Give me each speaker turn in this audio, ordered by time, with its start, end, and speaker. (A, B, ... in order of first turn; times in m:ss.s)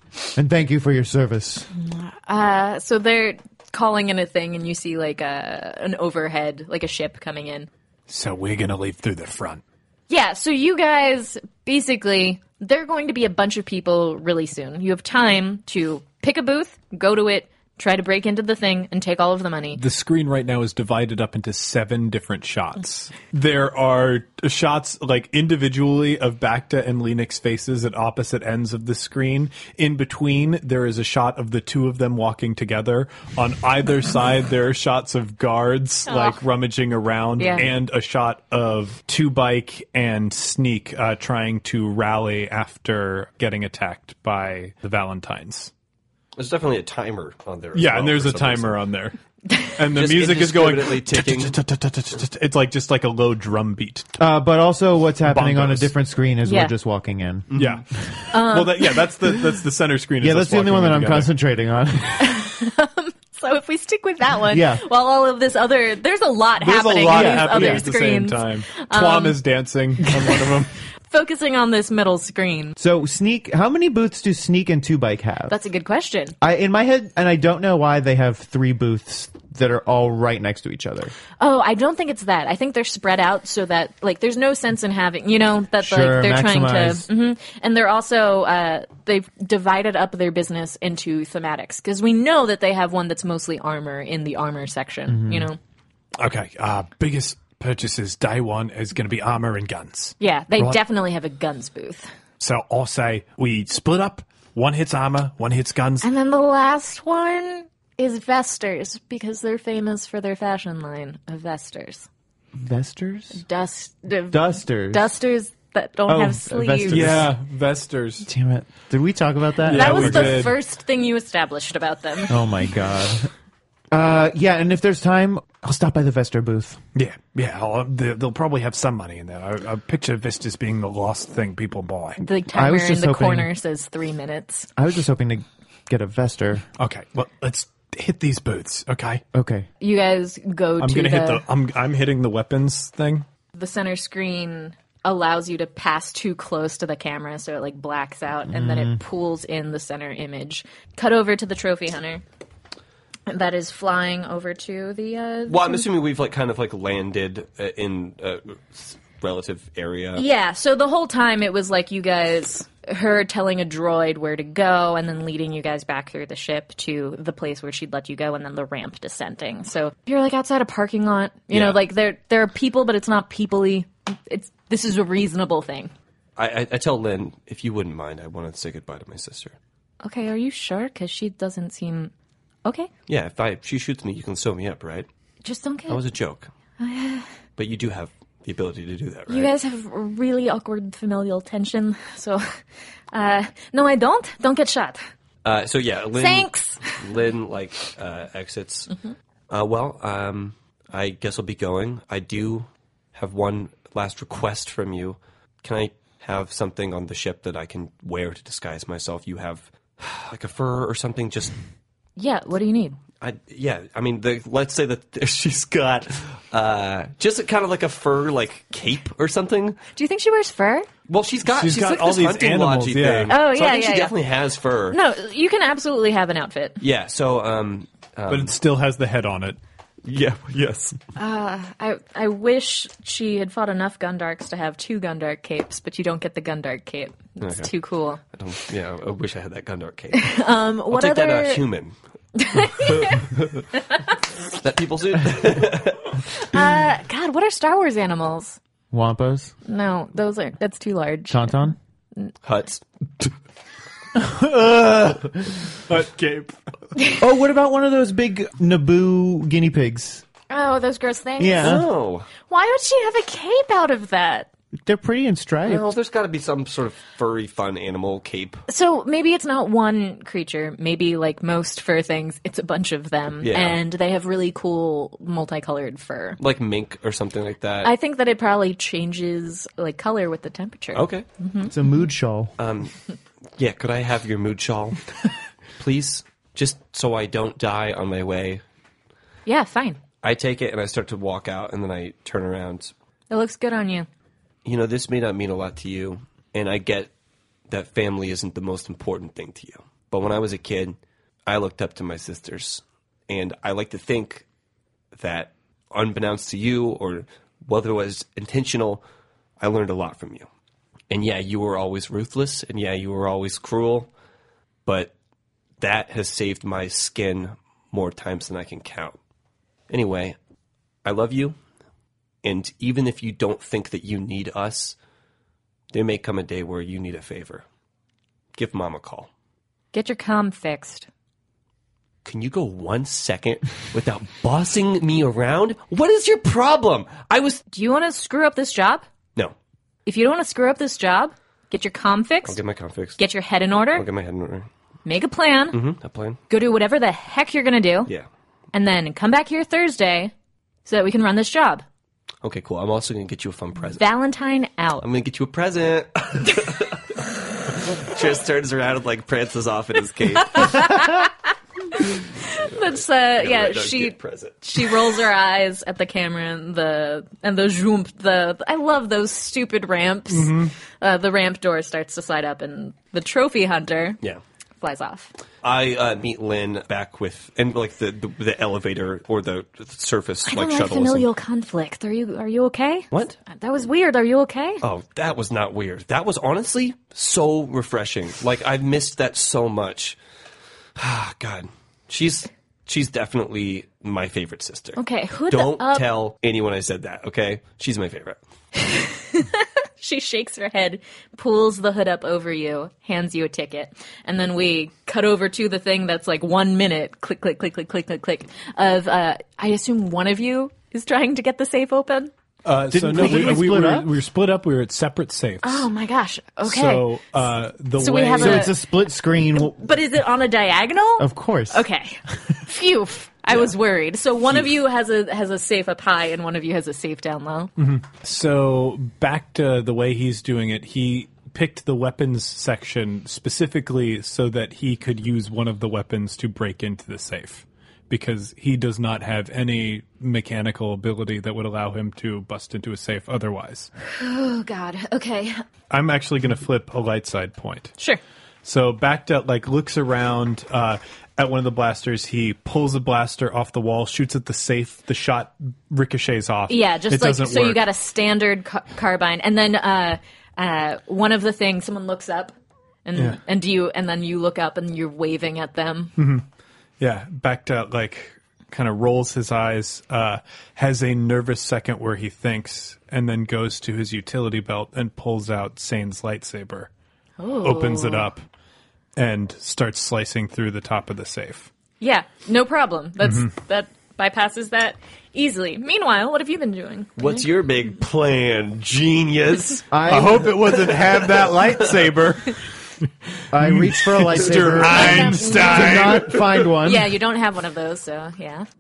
0:00.3-0:01.7 A
0:01.7-0:07.7 B
0:08.1-0:09.6 C
0:10.1-0:19.8 B
0:19.8-0:45.7 C
0:36.1-0:36.4 B
0:37.4-0:37.7 B
0:46.4-0:48.8 D
0:47.7-0:49.2 C
0:49.8-0:54.2 C
0:49.9-0:51.6 D
0:54.2-0:57.5 A
0:55.3-0:55.9 C
0:56.5-0:56.7 B
0:57.5-0:57.8 D
0:57.6-1:01.3 C
0:58.3-0:59.0 B
1:00.2-1:02.4 A
1:02.2-1:09.4 B
1:04.5-1:04.8 A
1:06.6-1:10.8 C
1:07.1-1:07.8 A
1:10.1-1:10.5 B
1:11.1-1:12.8 B
1:12.8-1:15.6 A
1:15.5-1:16.4 B
1:16.4-1:21.1 A
1:21.4-1:35.6 B
1:25.8-1:27.1 A
1:35.1-1:35.5 A
1:36.2-1:40.8 C
1:40.2-1:42.1 B
1:42.4-1:46.1 C
1:46.0-1:52.1 B
1:52.6-1:53.4 A
1:53.4-1:57.2 B
1:54.3-1:55.1 A
1:56.1-1:57.3 A
1:56.9-1:58.3 C
1:58.2-2:00.5 A
1:59.6-2:00.6 C
1:59.7-2:02.4 B
2:02.3-2:03.3 A
2:03.9-2:06.8 A
2:07.0-2:12.2 C
2:12.2-2:14.7 B
2:12.5-2:13.5 A
2:14.8-2:16.6 A
2:16.8-2:19.2 C
2:19.3-2:19.7 A
2:19.8-2:21.4 B
2:20.8-2:23.3 C
2:23.5-2:32.2 B
2:28.5-2:29.0 A
2:33.3-2:35.8 B
2:35.5-2:40.2 D
2:40.2-2:55.9 B
2:51.5-2:51.8 D
2:56.4-2:59.6 D
3:00.0-3:02.1 B
3:02.6-3:02.9 B
3:03.1-3:05.1 D
3:05.4-3:06.0 B
3:05.9-3:06.5 D
3:06.8-3:07.3 B
3:07.6-3:09.5 D
3:09.3-3:12.6 B
3:13.1-3:15.0 B
3:15.4-3:18.9 D
3:16.2-3:17.0 B
3:19.5-3:31.6 D
3:32.2-3:33.0 B
3:33.2-3:39.8 D
3:40.0-3:40.9 B
3:41.1-3:45.0 D
3:41.5-3:43.4 C
3:43.3-3:44.2 B
3:44.9-3:46.8 B
3:46.8-3:48.5 D
3:48.3-3:49.6 C
3:50.0-3:51.0 D
3:51.2-3:58.2 B
3:57.4-4:02.0 D
4:00.1-4:01.6 B
4:02.4-4:03.2 B
4:02.6-4:03.7 D
4:04.6-4:06.2 D
4:06.3-4:08.6 B
4:08.9-4:09.5 A
4:09.7-4:11.7 B
4:11.3-4:11.8 A
4:12.4-4:13.3 D
4:14.2-4:16.6 C
4:17.2-4:20.2 A
4:20.5-4:21.8 B
4:21.4-4:21.9 A
4:21.6-4:22.3 D
4:22.5-4:24.5 B
4:24.8-4:25.9 A
4:25.7-4:28.6 D
4:28.7-4:36.4 B
4:33.4-4:33.8 D
4:36.4-4:37.9 D
4:37.8-4:41.7 B
4:41.0-4:41.3 D
4:41.7-4:42.5 A
4:42.6-4:42.9 D
4:43.6-4:45.1 D
4:45.8-4:48.6 D
4:49.5-4:50.0 B
4:50.2-4:52.9 D
4:53.3-4:54.1 B
4:54.6-4:57.1 D
4:57.7-5:04.4 D
5:05.1-5:09.0 D
5:09.6-5:10.5 D
5:11.1-5:14.1 D
5:14.9-5:15.1 D
5:15.8-5:19.2 D
5:19.9-5:20.4 D
5:21.0-5:21.6 D
5:22.4-5:25.0 D
5:25.9-5:27.6 D
5:28.5-5:29.3 D
5:29.9-5:31.1 B
5:32.2-5:37.6 D
5:37.7-5:39.0 B
5:40.1-5:42.6 B
5:42.5-5:43.2 D
5:43.2-5:44.1 B
5:43.9-5:44.7 D
5:45.0-5:45.8 B
5:45.7-5:46.4 D
5:46.5-5:48.1 B
5:48.7-5:50.3 B
5:50.9-5:51.8 B
5:52.4-5:54.1 D
5:53.9-5:55.1 B
5:55.0-6:01.1 D
6:00.4-6:01.3 B
6:01.9-6:14.2 B
6:02.4-6:05.2 D
6:10.3-6:10.7 C
6:14.8-6:15.3 B
6:15.6-6:21.3 D
6:20.4-6:24.8 B
6:23.1-6:23.4 D
6:24.8-6:30.2 D
6:31.0-6:38.4 D
6:35.0-6:36.1 B
6:38.8-6:52.3 B
6:52.6-6:55.9 C
6:52.9-6:54.1 A
6:55.6-6:57.1 B
6:56.6-6:58.7 C
6:58.0-6:58.8 B
6:58.4-6:59.8 A
6:59.6-7:07.7 B
7:01.2-7:01.9 A
7:07.8-7:23.9 C
7:24.2-7:25.6 B
7:25.9-7:27.9 C
7:28.6-7:37.8 C
7:36.7-7:42.5 B
7:43.0-7:46.2 B
7:46.2-7:46.5 C
7:47.0-7:56.9 C
7:57.4-7:58.3 B
7:57.6-7:58.4 C
7:59.2-8:01.7 C
8:02.0-8:07.5 B
8:07.2-8:09.9 D
8:09.9-8:10.8 A
8:10.1-8:16.5 C
8:10.8-8:11.9 D
8:13.5-8:17.1 A
8:14.8-8:18.7 B